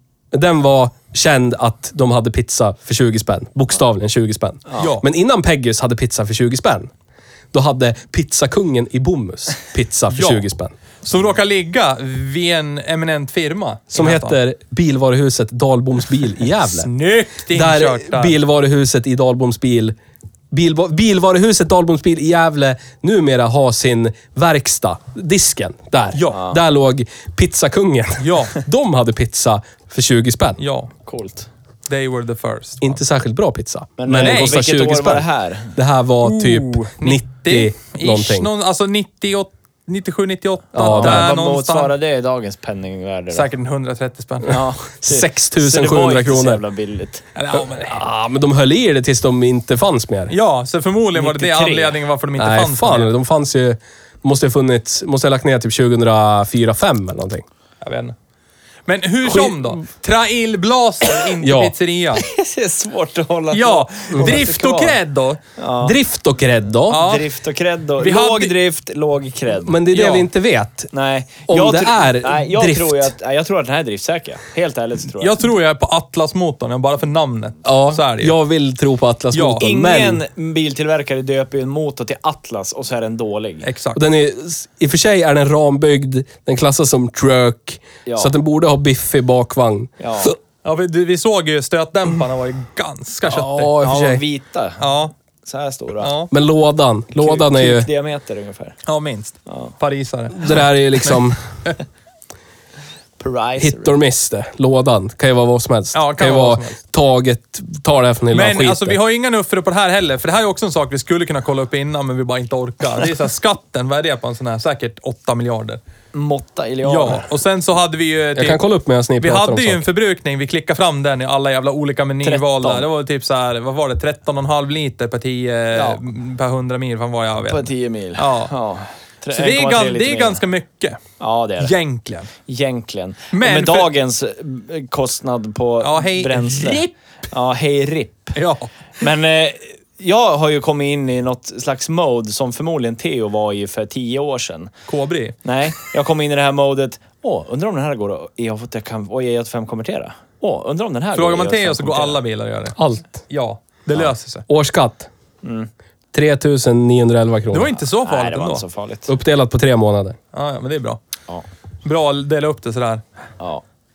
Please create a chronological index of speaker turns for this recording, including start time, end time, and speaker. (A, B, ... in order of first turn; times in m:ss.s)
0:00.3-0:06.9 A
0:04.8-0:05.0 B
0:07.5-0:10.7 A
0:10.1-0:10.4 B
0:11.0-0:14.4 B
0:13.9-0:16.9 A
0:16.6-0:18.4 B
0:17.5-0:20.0 A
0:20.5-0:30.6 A
0:26.1-0:26.4 B
0:26.3-0:26.6 C
0:28.2-0:28.6 B
0:30.6-0:30.9 B
0:31.0-0:31.5 C
0:31.9-0:33.0 B
0:32.8-0:38.5 A
0:34.0-0:35.7 C
0:34.2-0:34.6 B
0:36.2-0:41.9 B
0:40.7-0:41.3 A
0:40.8-0:43.5 C
0:43.3-0:44.6 B
0:44.5-0:47.2 C
0:45.0-0:46.6 A
0:47.4-0:48.0 B
0:47.5-0:50.4 A
0:50.3-0:53.1 B
0:51.2-0:52.0 C
0:52.4-0:57.4 A
0:57.8-0:58.1 B
0:58.9-1:02.2 B
0:59.2-0:59.8 A
1:01.4-1:01.7 A
1:02.2-1:05.0 C
1:03.5-1:05.4 B
1:04.1-1:04.4 A
1:05.6-1:06.0 C
1:05.8-1:07.1 A
1:06.9-1:07.3 B
1:06.9-1:09.8 C
1:08.0-1:08.5 B
1:09.6-1:10.9 A
1:09.9-1:10.3 B
1:10.9-1:15.4 C
1:11.5-1:13.1 A
1:15.2-1:18.3 B
1:17.6-1:20.2 A
1:19.3-1:19.6 B
1:19.6-1:23.7 C
1:23.6-1:24.0 B
1:24.0-1:30.3 A
1:28.0-1:28.3 C
1:30.0-1:30.4 C
1:30.6-1:33.8 B
1:33.3-1:34.2 A
1:33.8-1:34.9 C
1:34.8-1:35.1 B
1:35.4-1:36.1 C
1:36.0-1:36.3 B
1:36.3-1:37.9 A
1:37.1-1:38.8 C
1:38.9-1:41.7 B
1:39.5-1:39.7 C
1:40.4-1:41.4 A
1:43.2-1:44.0 C
1:43.6-1:49.0 A
1:45.9-1:46.8 B
1:48.3-1:55.8 B
1:56.1-1:57.3 C
1:56.8-1:58.6 B
1:58.4-1:59.8 A
1:59.2-2:08.5 B
2:02.2-2:02.9 C
2:05.7-2:06.0 C
2:07.4-2:10.4 C
2:09.3-2:11.0 B
2:11.2-2:11.7 C
2:11.6-2:12.3 B
2:12.5-2:18.4 C
2:13.3-2:13.9 B
2:15.8-2:16.9 B
2:18.4-2:18.7 B
2:19.0-2:24.7 C
2:24.9-2:25.4 B
2:25.4-2:32.2 C
2:31.1-2:32.8 B
2:32.8-2:33.2 A
2:33.3-2:34.4 B
2:34.5-2:35.1 A
2:35.4-2:35.7 C
2:36.1-2:37.7 A
2:37.5-2:38.6 B
2:38.0-2:39.1 C
2:39.1-2:40.2 A
2:40.3-2:41.0 B
2:41.8-2:43.0 B
2:43.4-2:43.6 C